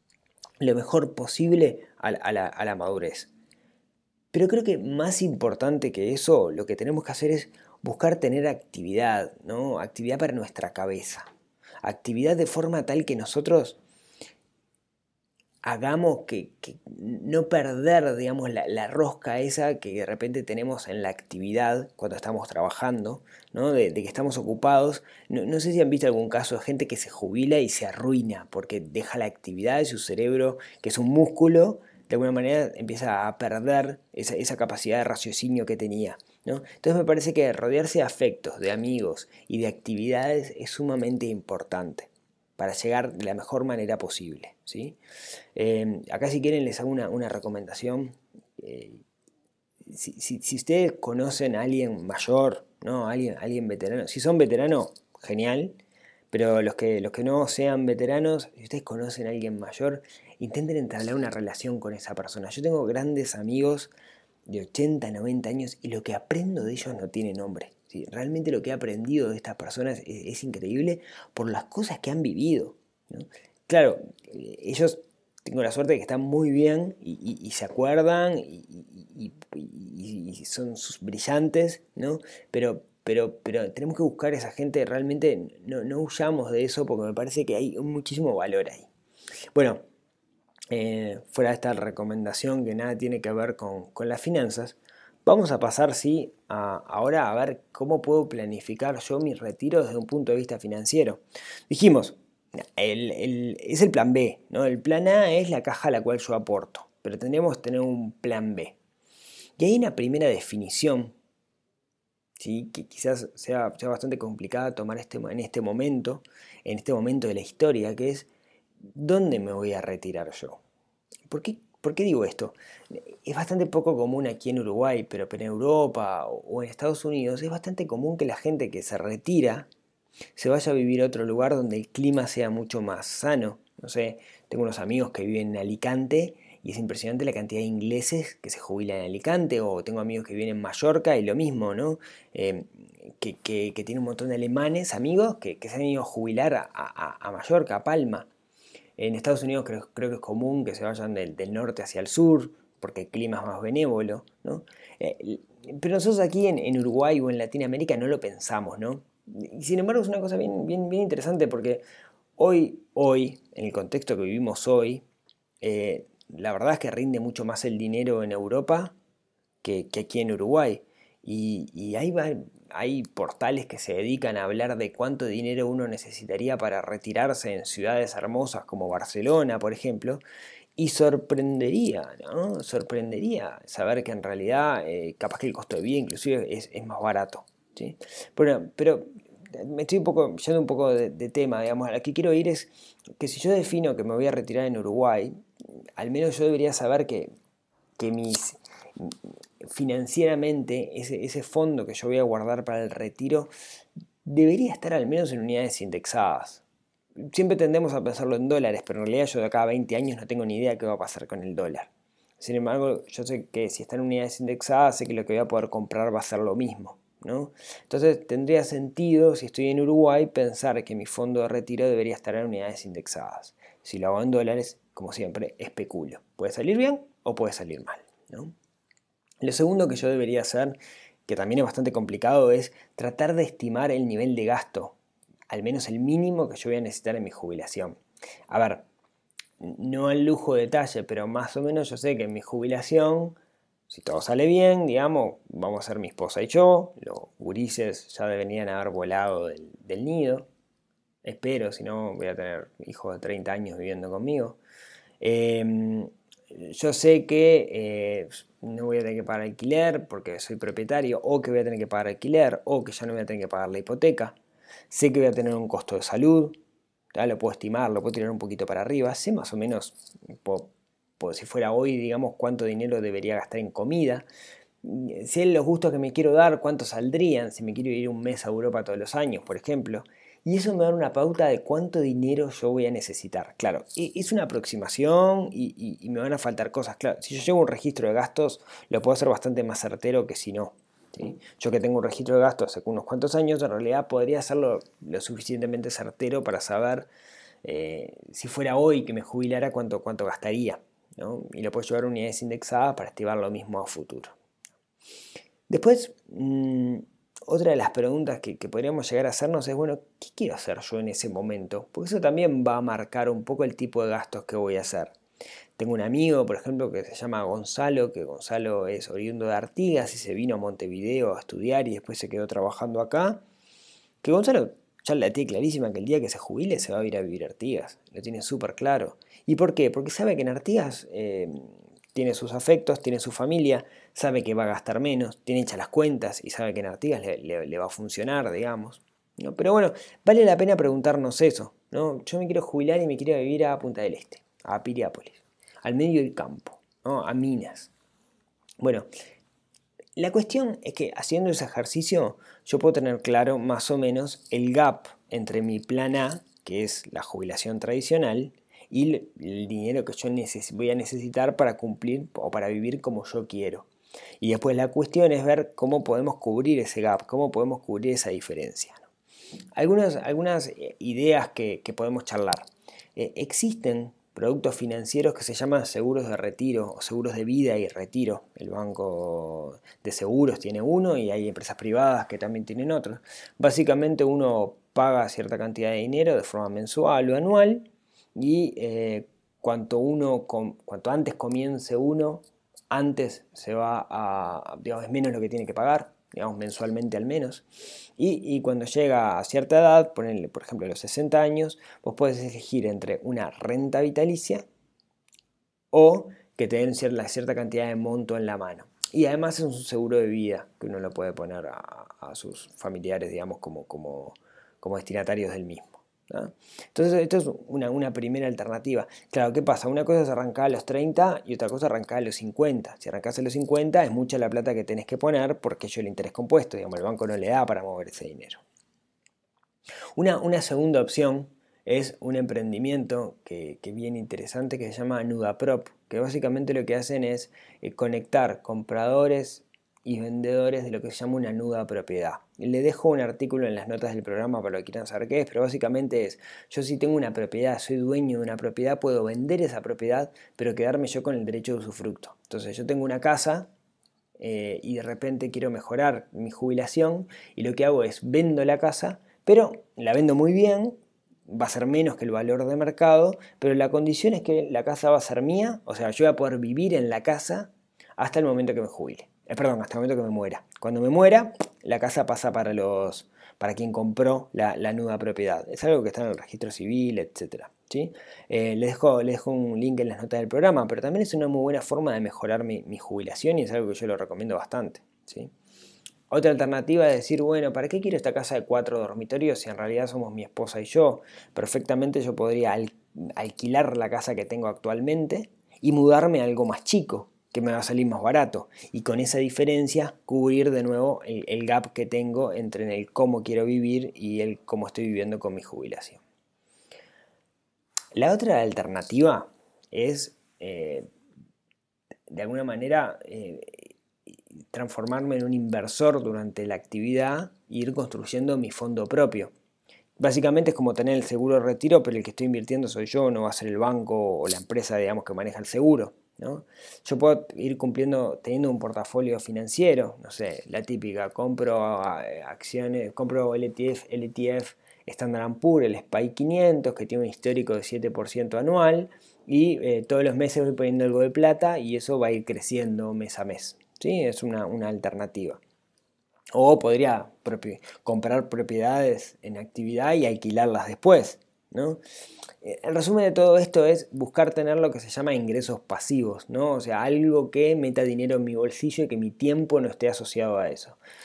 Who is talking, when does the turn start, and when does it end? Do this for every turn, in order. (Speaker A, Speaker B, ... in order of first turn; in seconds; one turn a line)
Speaker A: 0.6-3.3
Speaker A: 4.3-11.3
Speaker A: 11.8-13.8
Speaker A: 15.6-45.0
Speaker A: 45.5-49.0
Speaker A: 49.8-55.8
Speaker A: 56.3-63.9
Speaker A: 64.5-88.9
Speaker A: 89.5-89.8
Speaker A: 90.7-108.8
Speaker A: 109.6-111.1
Speaker A: 112.4-118.3
Speaker A: 118.9-120.6
Speaker A: 121.3-129.7
Speaker A: 130.3-148.3
Speaker A: 149.0-161.8
Speaker A: 162.4-165.0
Speaker A: 165.6-168.9
Speaker A: 169.6-180.2
Speaker A: 180.8-195.4
Speaker A: 196.0-197.3
Speaker A: 198.0-203.5
Speaker A: 204.2-206.6
Speaker A: 207.2-228.5
Speaker A: 229.4-234.9
Speaker A: 235.5-238.9
Speaker A: 239.6-243.4
Speaker A: 243.9-250.5
Speaker A: 251.2-254.6
Speaker A: 255.2-264.4
Speaker A: 264.9-266.6
Speaker A: 267.1-274.2
Speaker A: 274.8-297.1
Speaker A: 297.6-304.3
Speaker A: 305.7-315.1
Speaker A: 315.8-323.4
Speaker A: 324.2-347.9
Speaker A: 348.8-349.1
Speaker A: 350.2-363.9
Speaker A: 364.4-369.1
Speaker A: 369.8-397.6
Speaker A: 398.2-404.6
Speaker A: 405.9-428.6
Speaker A: 430.1-453.7
Speaker A: 454.4-461.0
Speaker A: 461.5-485.5
Speaker A: 486.3-506.2
Speaker A: 508.1-511.1
Speaker A: 512.3-519.5
Speaker A: 520.2-545.6
Speaker A: 546.5-552.0
Speaker A: 552.6-561.0